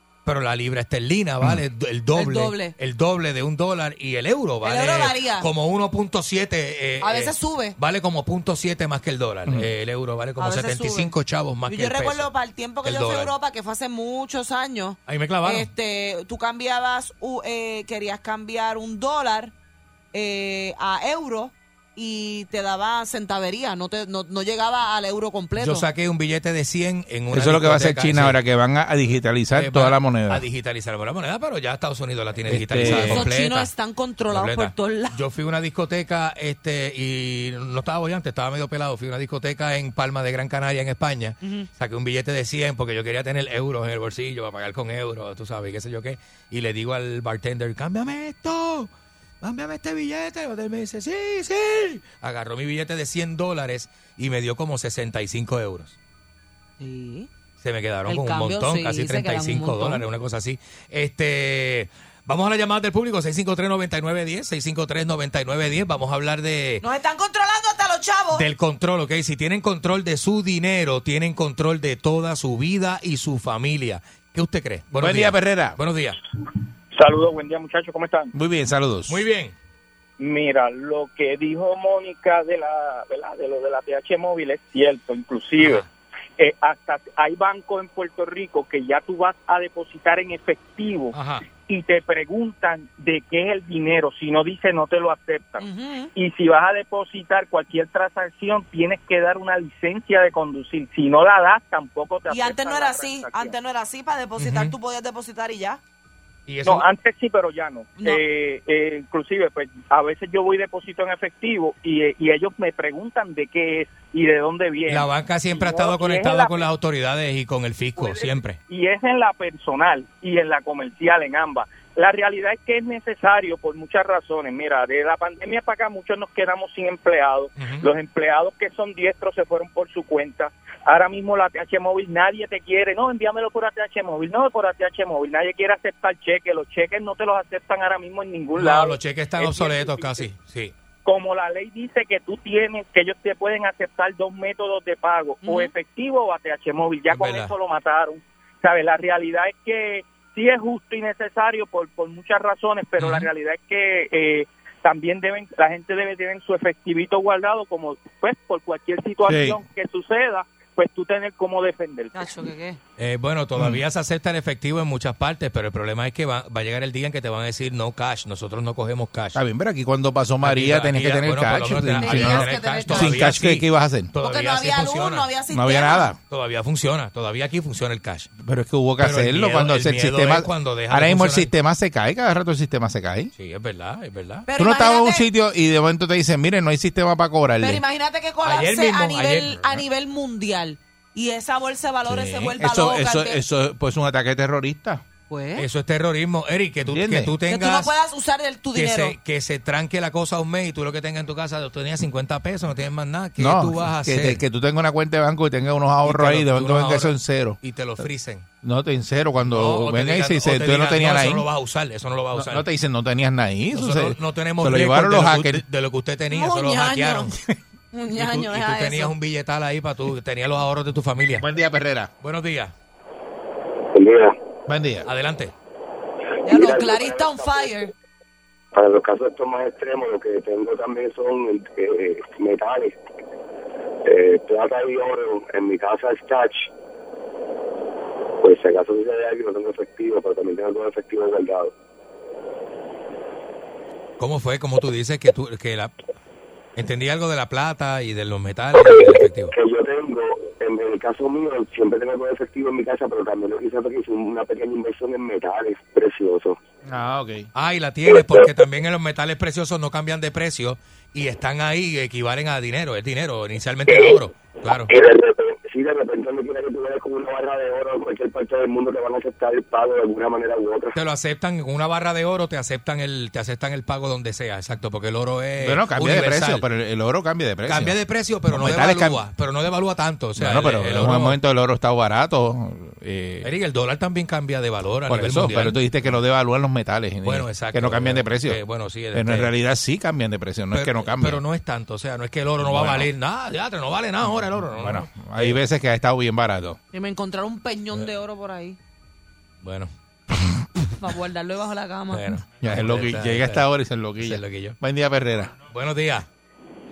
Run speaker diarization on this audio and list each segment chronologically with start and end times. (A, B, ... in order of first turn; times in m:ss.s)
0:00.2-0:12.3 A
0:02.1-0:02.7 B
0:04.6-0:05.5 B
0:07.0-0:07.8 B
0:10.4-0:11.1 B
0:11.6-0:19.5 B
0:12.8-0:13.3 A
0:15.1-0:15.7 A
0:20.1-0:25.8 B
0:25.6-0:28.4 A
0:27.3-0:30.4 C
0:29.5-0:33.7 A
0:32.4-0:33.2 C
0:32.8-0:35.2 B
0:34.3-0:48.9 A
0:49.4-0:56.0 A
0:56.8-0:57.3 B
0:57.6-1:06.8 A
0:58.1-1:00.0 B
1:06.8-1:08.4 B
1:08.3-1:16.2 A
1:15.0-1:15.8 C
1:16.9-1:18.3 D
1:18.3-1:19.2 C
1:19.1-1:19.5 A
1:20.2-1:25.8 D
1:25.6-1:25.8 A
1:26.4-1:35.6 D
1:31.1-1:31.4 A
1:35.6-1:36.1 B
1:36.1-1:43.6 D
1:42.3-1:45.8 B
1:44.4-1:44.7 A
1:46.5-1:46.9 A
1:46.6-1:56.7 D
1:48.0-1:48.2 B
1:54.9-1:58.6 A
1:58.0-2:20.2 D
2:07.6-2:07.9 A
2:18.5-2:20.7 A
2:21.0-2:42.3 D
2:25.4-2:25.7 B
2:27.1-2:27.5 A
2:33.0-2:33.3 A
2:39.2-2:39.6 C
2:42.1-2:42.8 B
2:43.0-2:49.4 A
2:43.6-2:43.8 C
2:49.3-2:54.1 C
2:50.4-2:55.3 A
2:52.0-2:53.3 B
2:54.2-2:56.1 B
2:55.5-2:56.2 C
2:56.3-2:58.3 A
2:58.4-3:03.3 C
2:59.0-3:01.5 A
3:03.4-3:04.4 A
3:04.5-3:05.3 B
3:04.6-3:07.8 C
3:07.6-3:13.4 B
3:08.4-3:09.8 A
3:12.1-3:15.0 C
3:15.3-3:15.6 B
3:15.6-3:17.9 A
3:16.9-3:17.3 C
3:17.5-3:19.1 B
3:18.7-3:24.4 A
3:23.4-3:27.6 C
3:26.0-3:28.4 A
3:28.6-3:31.4 C
3:29.4-3:32.7 A
3:32.3-3:35.6 C
3:33.7-3:37.4 A
3:36.3-3:37.3 B
3:37.9-3:39.1 B
3:38.1-3:41.4 A
3:41.4-3:42.1 C
3:42.2-3:42.7 A
3:43.9-3:44.3 E
3:44.7-3:45.1 C
3:45.0-3:45.5 A
3:46.4-3:47.9 B
3:46.4-3:47.7 E
3:48.7-3:53.0 E
3:54.0-3:56.7 E
3:58.4-4:01.7 E
4:04.2-4:05.9 A
4:06.8-4:09.5 A
4:09.5-4:16.6 E
4:16.8-4:17.5 C
4:17.5-4:24.9 A
4:24.9-4:31.0 E
4:30.9-4:36.6 A
4:35.6-4:37.9 C
4:37.6-4:41.4 A
4:38.5-4:39.2 C
4:40.4-4:43.5 C
4:43.4-4:45.8 A
4:45.1-4:48.6 C
4:47.2-4:49.5 A
4:49.1-4:51.4 C
4:50.7-4:55.6 A
4:52.6-4:53.1 C
4:54.3-4:56.8 C
4:56.9-4:58.8 B
4:59.6-4:59.9 A
5:01.0-5:02.3 B
5:02.1-5:03.6 A
5:02.6-5:05.5 C
5:04.2-5:04.8 A
5:05.7-5:06.3 A